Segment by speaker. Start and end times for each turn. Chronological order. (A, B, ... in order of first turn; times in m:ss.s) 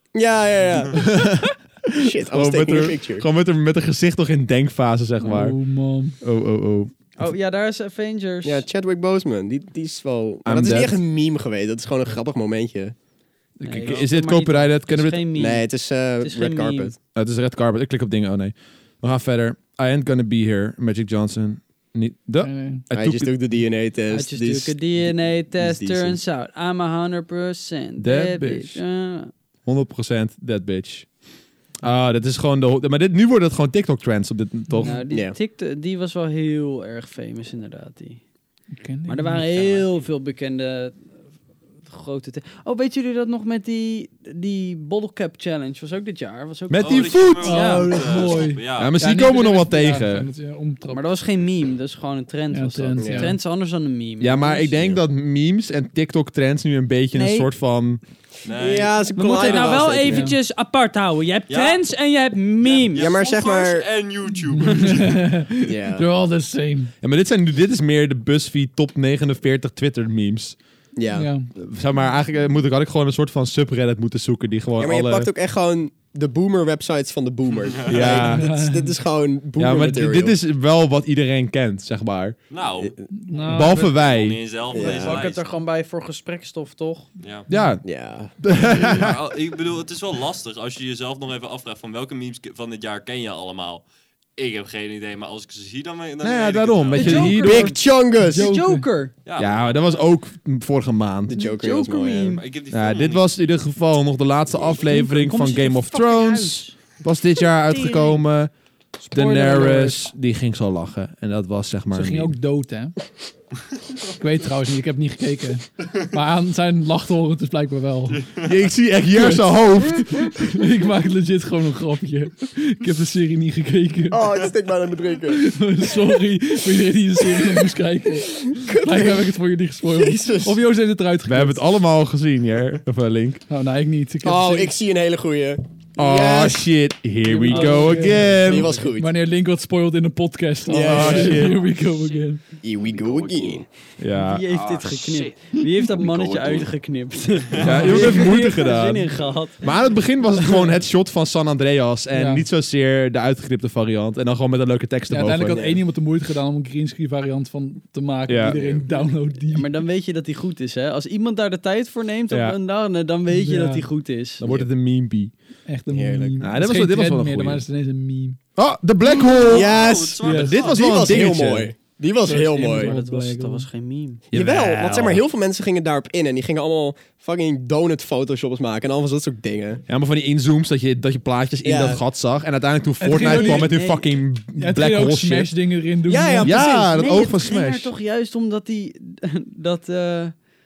0:00.2-0:01.1 A
0:00.9-0:05.6 B
0:02.0-0:03.3 A
0:05.2-0:06.2 C
0:06.2-0:06.9 B
0:07.2-0:08.6 D
0:08.4-0:13.0 A
0:10.4-0:11.0 B
0:13.6-0:15.2 B
0:13.6-0:15.7 D
0:15.4-0:17.0 A
0:16.2-0:16.9 D
0:17.1-0:23.3 B
0:22.4-0:22.9 C
0:22.9-0:24.8 A
0:24.1-0:29.3 D
0:25.6-0:26.2 A
0:28.0-0:28.8 B
0:29.7-0:31.1 B
0:31.8-0:35.0 B
0:34.7-0:35.0 C
0:34.8-0:38.2 D
0:35.1-0:35.4 A
0:38.8-0:39.4 C
0:39.0-0:41.0 D
0:39.5-0:40.1 E
0:41.8-0:48.2 D
0:46.7-0:47.6 B
0:46.8-0:49.0 E
0:47.4-0:51.0 C
0:48.8-0:50.3 B
0:50.9-0:54.8 D
0:52.5-0:53.4 C
0:53.0-0:53.3 A
0:54.2-0:58.0 B
0:57.1-0:57.5 D
0:58.4-0:59.9 E
0:58.5-1:00.3 A
0:59.2-1:03.1 D
1:00.0-1:00.4 C
1:01.5-1:01.8 E
1:02.6-1:05.2 E
1:02.9-1:03.9 A
1:04.6-1:06.9 C
1:05.6-1:06.1 A
1:07.0-1:10.6 B
1:11.0-1:11.3 A
1:11.1-1:11.5 C
1:11.6-1:15.3 B
1:14.8-1:20.4 A
1:17.6-1:18.2 E
1:17.9-1:18.5 B
1:18.2-1:18.9 C
1:19.6-1:22.4 B
1:22.5-1:23.0 E
1:22.8-1:23.1 A
1:23.1-1:23.9 C
1:23.5-1:24.4 B
1:23.7-1:25.5 E
1:24.7-1:25.2 A
1:24.7-1:27.1 D
1:27.2-1:27.5 E
1:27.5-1:27.8 B
1:27.8-1:28.4 A
1:28.4-1:29.2 B
1:28.7-1:33.8 E
1:34.4-1:37.3 E
1:36.2-1:37.8 B
1:37.0-1:39.1 D
1:37.3-1:38.5 A
1:38.2-1:38.9 C
1:39.2-1:40.1 E
1:39.4-1:41.4 B
1:41.3-1:42.4 A
1:41.4-1:42.4 D
1:42.4-1:43.3 E
1:42.7-1:48.5 B
1:44.8-1:46.7 D
1:47.5-1:48.2 D
1:49.1-1:52.3 B
1:49.1-1:50.0 D
1:51.9-1:53.0 C
1:54.2-1:58.2 C
1:58.1-1:58.6 E
1:58.4-2:00.4 B
1:59.1-2:04.3 C
2:04.1-2:05.4 A
2:05.3-2:11.6 C
2:07.2-2:07.7 A
2:08.3-2:09.3 A
2:09.8-2:10.6 A
2:11.2-2:13.4 B
2:13.5-2:14.8 C
2:14.2-2:16.7 A
2:16.0-2:18.8 B
2:17.4-2:22.4 C
2:17.5-2:18.2 D
2:17.5-2:19.2 A
2:20.7-2:21.6 A
2:20.8-2:21.6 B
2:22.6-2:23.7 A
2:23.0-2:23.6 E
2:24.0-2:25.2 B
2:24.2-2:29.7 D
2:27.6-2:35.7 B
2:27.6-2:28.4 C
2:32.1-2:32.5 C
2:35.1-2:39.7 C
2:35.5-2:35.8 A
2:38.3-2:38.6 B
2:38.6-2:38.9 A
2:39.5-2:44.5 D
2:42.3-2:42.6 B
2:43.3-2:43.9 C
2:44.4-2:45.3 B
2:45.7-2:48.4 C
2:45.9-2:46.5 A
2:46.4-2:47.6 B
2:48.6-2:51.7 B
2:49.4-2:53.0 A
2:49.5-2:51.2 E
2:50.2-2:50.7 C
2:52.2-2:53.7 C
2:52.6-2:54.2 D
2:54.3-2:55.2 B
2:54.3-2:59.8 A
2:59.9-3:05.5 B
3:01.6-3:02.0 A
3:03.0-3:03.9 C
3:03.2-3:04.2 D
3:04.6-3:06.7 C
3:06.1-3:07.1 A
3:06.4-3:07.9 B
3:06.4-3:10.4 D